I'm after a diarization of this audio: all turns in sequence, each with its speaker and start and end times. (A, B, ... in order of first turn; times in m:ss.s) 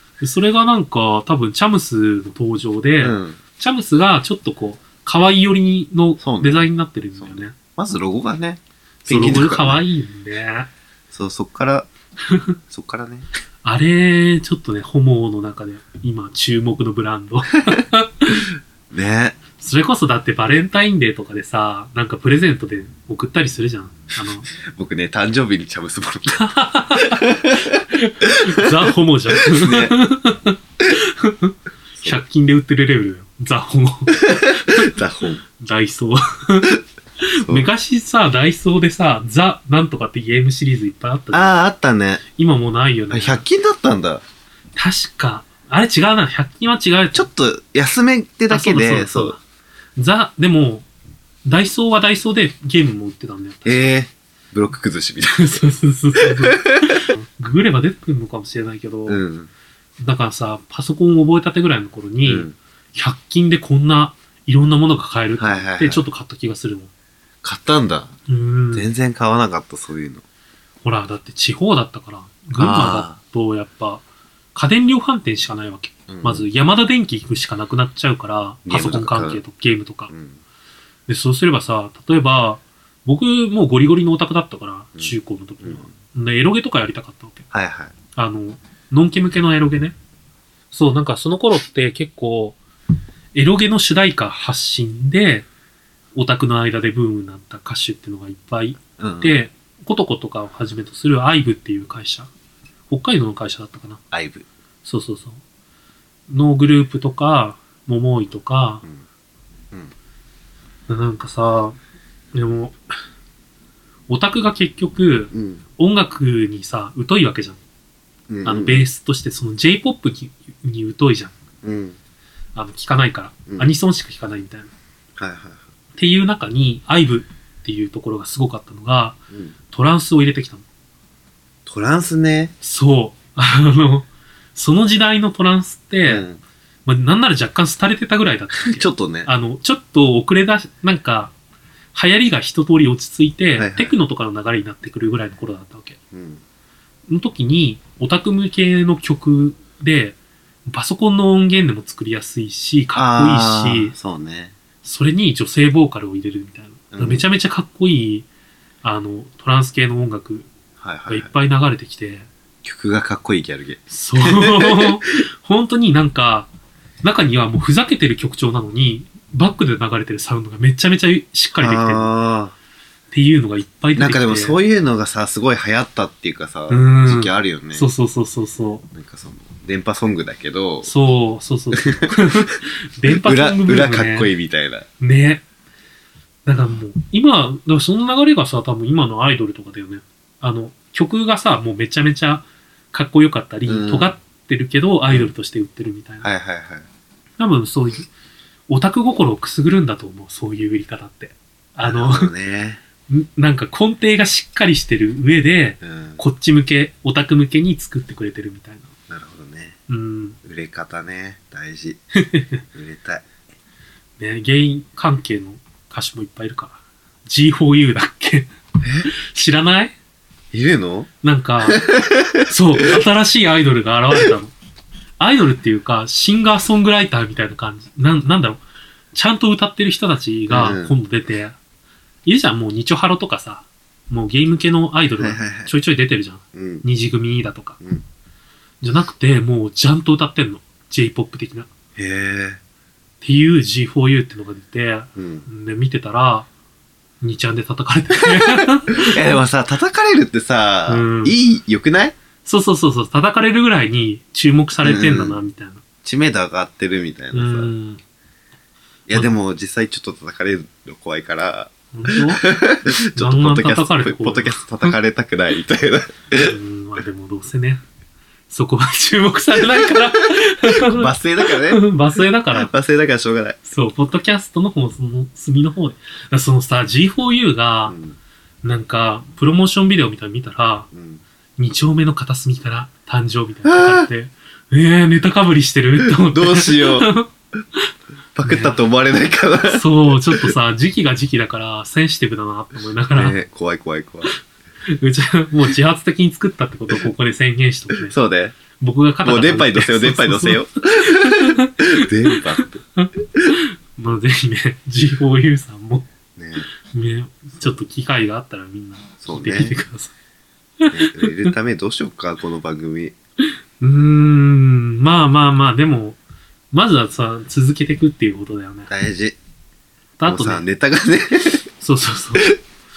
0:00.2-0:07.5 A
0:03.0-0:03.4 B
0:06.2-0:06.6 B
0:07.2-0:09.8 B
0:09.0-0:10.7 A
0:11.1-0:11.9 B
0:12.2-0:12.6 A
0:12.7-0:13.3 B
0:13.6-0:18.4 A
0:18.3-0:19.4 B
0:19.6-0:24.5 A
0:24.5-0:30.0 B
0:26.4-0:35.0 A
0:34.2-0:35.4 B
0:35.6-0:41.6 A
0:41.3-0:42.2 B
0:42.4-0:43.4 A
0:43.1-0:44.2 B
0:44.8-0:47.3 A
0:47.1-0:49.4 B
0:48.5-0:49.4 A
0:50.0-0:50.8 A
0:51.4-0:53.9 A
0:53.6-0:57.0 B
0:55.3-0:59.2 A
0:59.1-0:59.5 B
1:00.0-1:06.9 A
1:02.2-1:02.5 B
1:05.4-1:06.0 B
1:07.4-1:08.1 B
1:08.3-1:08.9 A
1:08.7-1:10.2 B
1:10.8-1:14.0 A
1:12.6-1:13.1 B
1:14.5-1:20.1 A
1:16.1-1:16.4 B
1:18.6-1:19.4 B
1:20.1-1:20.4 B
1:21.1-1:27.4 A
1:25.0-1:25.9 B
1:27.5-1:27.9 B
1:28.2-1:29.9 A
1:30.7-1:32.6 A
1:33.3-1:35.5 A
1:36.1-1:42.3 A
1:39.0-1:39.4 B
1:42.9-1:44.0 A
1:44.1-1:44.4 B
1:44.8-1:45.4 A
1:46.3-1:48.8 A
1:50.9-1:51.8 A
1:52.3-1:52.8 A
1:54.1-1:57.6 A
1:55.3-1:55.6 B
1:58.3-1:58.8 B
1:58.4-2:01.3 A
2:01.6-2:02.0 B
2:02.5-2:04.7 A
2:05.2-2:05.6 B
2:06.0-2:09.2 A
2:09.7-2:10.6 A
2:11.6-2:12.5 B
2:12.6-2:16.2 A
2:16.0-2:16.4 B
2:16.8-2:21.3 A
2:18.6-2:19.3 B
2:21.9-2:26.0 A
2:23.6-2:23.9 B
2:26.1-2:26.4 B
2:27.1-2:30.2 A
2:30.7-2:33.9 A
2:32.9-2:34.5 B
2:34.8-2:38.3 A
2:36.9-2:37.2 B
2:38.8-2:40.5 A
2:40.8-2:41.3 B
2:41.1-2:42.3 A
2:42.6-2:45.0 B
2:43.9-2:46.5 A
2:47.0-2:52.1 A
2:51.6-2:52.5 B
2:53.1-2:54.6 A
2:54.0-2:57.8 B
2:56.7-2:58.9 A
2:58.9-3:00.9 B
3:00.8-3:04.3 A
3:01.7-3:02.5 B
3:03.1-3:04.9 B
3:05.0-3:05.4 A
3:06.4-3:16.3 A
3:13.6-3:14.1 B
3:16.2-3:16.8 B
3:17.4-3:18.1 A
3:18.7-3:22.3 A
3:21.8-3:22.8 B
3:23.1-3:28.9 A
3:25.8-3:26.2 B
3:29.1-3:29.8 B
3:29.9-3:30.4 A
3:30.4-3:32.0 B
3:32.2-3:32.6 A
3:32.7-3:33.2 B
3:34.2-3:38.5 A
3:38.8-3:39.1 B
3:39.1-3:39.9 A
3:40.5-3:41.1 B
3:41.2-3:41.9 A
3:41.6-3:43.0 B
3:42.4-3:44.5 A
3:45.2-3:48.6 A
3:49.1-3:51.6 A
3:50.5-3:50.9 B
3:52.2-3:57.8 A
3:55.2-3:55.7 B
3:56.5-3:56.8 B
3:58.8-4:01.7 A
4:02.0-4:02.6 B
4:03.2-4:06.5 A
4:05.2-4:05.4 B
4:07.2-4:09.2 A
4:08.3-4:12.2 B
4:10.9-4:11.4 A
4:12.4-4:15.8 A
4:14.8-4:15.4 B
4:16.0-4:17.7 B
4:17.3-4:18.0 A
4:19.1-4:26.5 B
4:21.9-4:22.4 A
4:23.0-4:24.9 A
4:26.3-4:27.8 A
4:28.5-4:32.7 A
4:29.7-4:30.0 B
4:30.6-4:31.8 B
4:32.6-4:33.6 B
4:33.6-4:38.0 A
4:37.9-4:38.2 B
4:38.6-4:40.9 A
4:40.9-4:41.2 B
4:41.6-4:47.9 A
4:43.6-4:44.1 B
4:46.0-4:47.1 B
4:48.4-4:50.5 B
4:48.4-4:48.8 A
4:49.7-4:53.4 A
4:53.2-4:54.3 B
4:54.9-4:58.1 A
4:58.0-4:58.6 B
4:58.8-5:06.1 A
4:59.2-5:02.8 B
5:06.4-5:06.6 B
5:06.8-5:10.1 A
5:09.2-5:09.8 B
5:10.8-5:11.5 A
5:10.9-5:13.1 B
5:13.8-5:16.2 A
5:16.7-5:18.9 A
5:18.9-5:19.4 B
5:20.2-5:20.6 A
5:20.2-5:21.6 B
5:21.8-5:22.5 A